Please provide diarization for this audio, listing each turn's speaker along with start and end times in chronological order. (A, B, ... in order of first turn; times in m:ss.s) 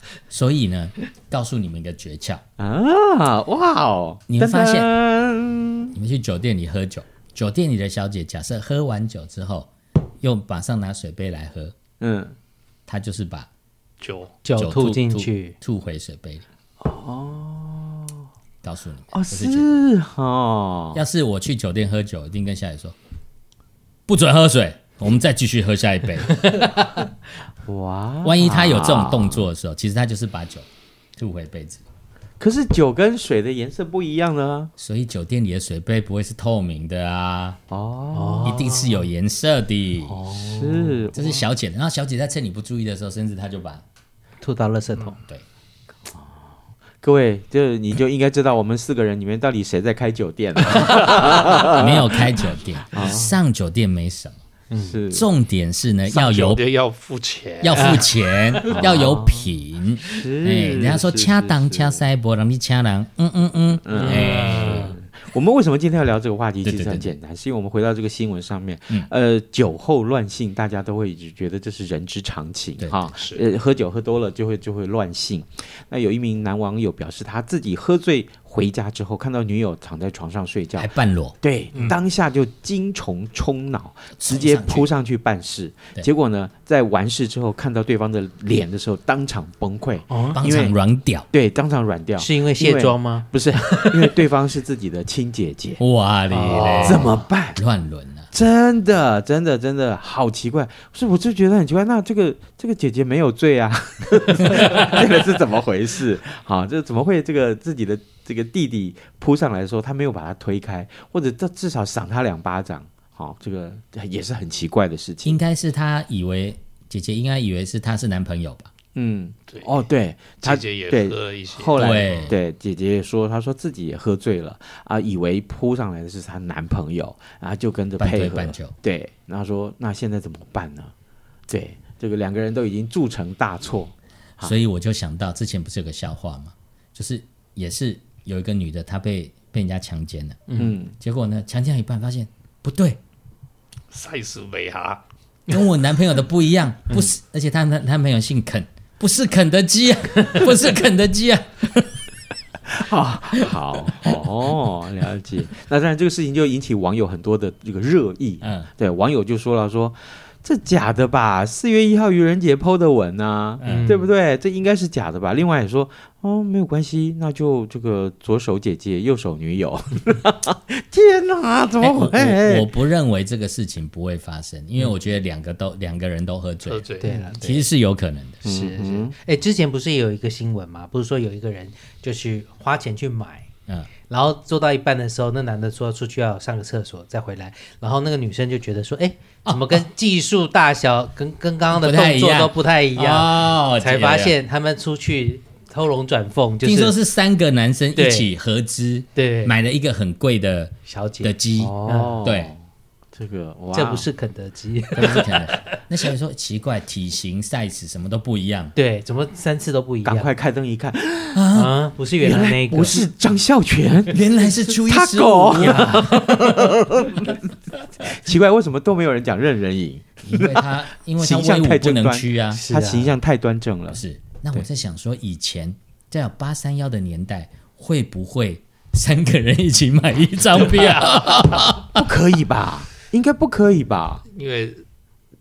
0:00.3-0:02.4 A
0:02.6-0:06.0 B
0:04.3-0:04.9 A
0:06.0-0:09.7 A
0:10.2-0:11.8 A
0:12.0-0:12.4 B
0:12.9-0:13.5 A
0:14.0-0:14.3 C
0:14.1-0:16.4 A
0:14.4-0:15.6 D
0:16.8-0:18.3 B
0:18.6-0:19.6 A
0:19.1-0:21.0 B
0:21.0-0:23.0 A
0:24.1-0:26.3 A
0:27.6-0:29.5 B
0:28.2-0:31.8 A
0:32.4-0:34.7 B
0:34.8-0:37.6 A
0:37.7-0:38.6 B
0:38.1-0:39.1 D
0:38.5-0:40.2 A
0:40.0-0:41.4 B
0:40.3-0:41.0 D
0:41.2-0:43.8 A
0:44.4-0:45.2 D
0:46.1-0:52.4 B
0:51.7-0:54.4 A
0:52.9-0:53.4 B
0:54.7-0:55.0 D
0:54.8-0:55.3 B
0:55.1-1:05.0 A
0:56.2-0:57.9 C
0:58.7-0:59.5 B
0:58.8-0:59.2 C
1:00.0-1:02.0 B
1:03.8-1:30.8 B
1:04.0-1:04.9 D
1:06.6-1:07.1 A
1:12.8-1:13.3 A
1:20.8-1:21.4 A
1:24.2-1:24.9 A
1:30.1-1:30.6 D
1:30.4-1:31.3 A
1:31.3-1:35.8 B
1:32.2-1:34.1 D
1:35.8-1:38.3 A
1:36.3-1:37.2 D
1:36.8-1:37.6 B
1:38.3-1:55.4 B
1:55.3-1:58.7 A
1:59.0-2:10.9 B
2:00.5-2:02.3 C
2:01.3-2:02.4 A
2:08.0-2:08.8 A
2:11.5-2:14.6 B
2:14.5-2:20.4 A
2:20.5-2:20.8 D
2:20.6-2:20.9 B
2:21.0-2:23.0 A
2:23.9-2:25.0 C
2:25.5-2:32.0 A
2:26.9-2:27.2 B
2:32.7-2:52.7 B
2:38.4-2:38.7 A
2:43.6-2:44.1 D
2:43.6-2:43.9 A
2:51.8-2:58.4 A
2:56.7-2:57.1 C
2:57.0-2:57.7 D
2:58.4-3:03.5 D
2:58.4-2:59.2 B
3:04.1-3:17.0 D
3:11.7-3:14.4 A
3:16.7-3:21.7 A
3:17.9-3:18.3 D
3:19.2-3:19.6 D
3:20.9-3:22.2 D
3:21.6-3:22.6 B
3:22.2-3:22.5 A
3:23.2-3:24.1 B
3:23.7-3:25.6 D
3:25.0-3:28.7 A
3:28.8-3:30.3 D
3:30.0-3:31.5 B
3:31.4-3:31.7 A
3:31.5-3:33.0 D
3:32.2-3:37.3 B
3:34.1-3:35.0 A
3:35.0-3:35.8 C
3:35.6-3:36.7 D
3:35.8-3:36.2 A
3:38.0-3:44.0 B
3:40.4-3:42.6 A
3:42.5-3:43.2 D
3:43.9-3:52.0 A
3:51.9-3:54.2 B
3:54.3-3:54.8 C